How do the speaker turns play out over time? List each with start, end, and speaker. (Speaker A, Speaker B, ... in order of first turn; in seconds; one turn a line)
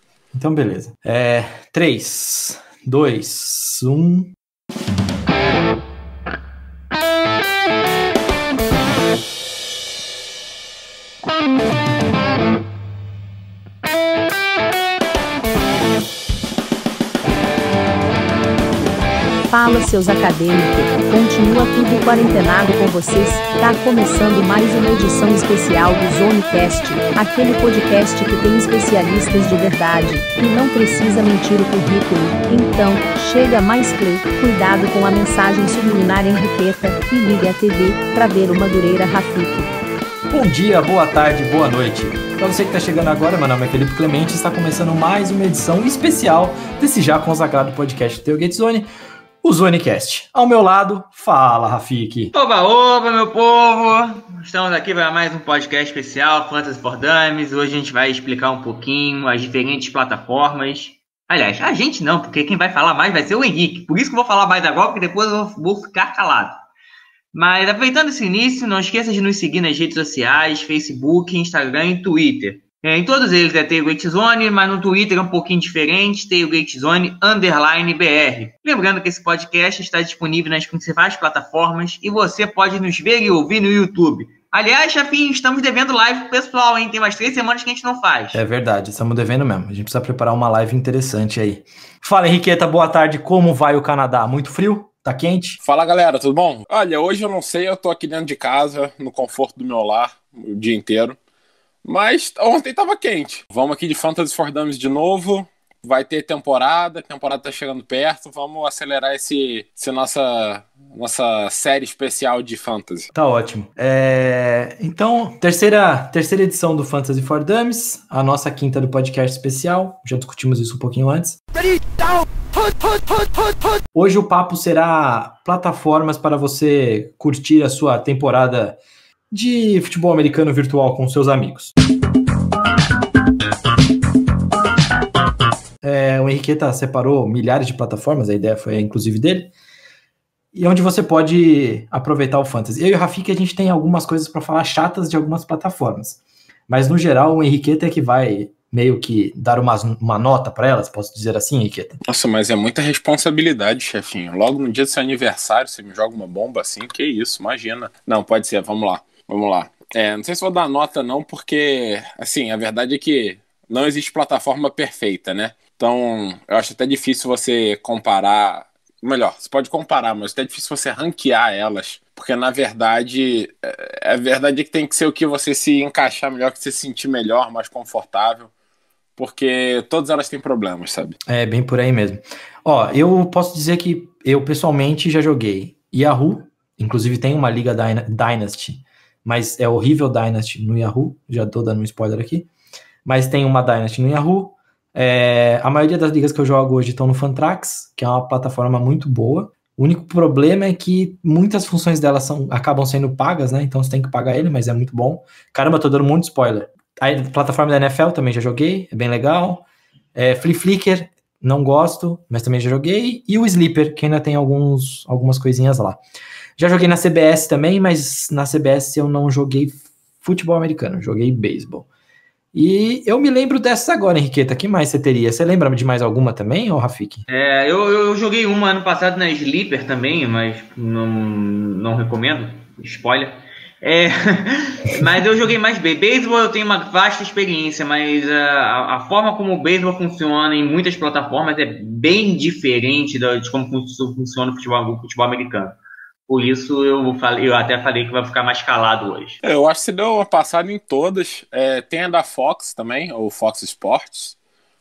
Speaker A: 0.3-4.3
Speaker B: 19.5-39.8
Speaker A: 40.3-48.9
Speaker A: 49.4-52.3
Speaker C: 52.3-66.6
Speaker C: 67.3-88.4
Speaker A: 88.3-95.6
Speaker D: 95.6-101.2
Speaker D: 101.8-113.1
Speaker A: 113.1-121.8
Speaker A: 123.0-123.3
Speaker A: 123.9-128.8
Speaker A: 129.3-131.7
Speaker A: 135.8-139.5
Speaker A: 140.5-152.0
Speaker D: 152.0-178.5
Speaker D: 179.2-181.2
Speaker A: 181.3-192.5
Speaker A: 193.1-216.0
Speaker A: 216.6-221.9
Speaker A: 222.5-227.2
Speaker C: 227.3-249.4
Speaker D: 249.4-254.4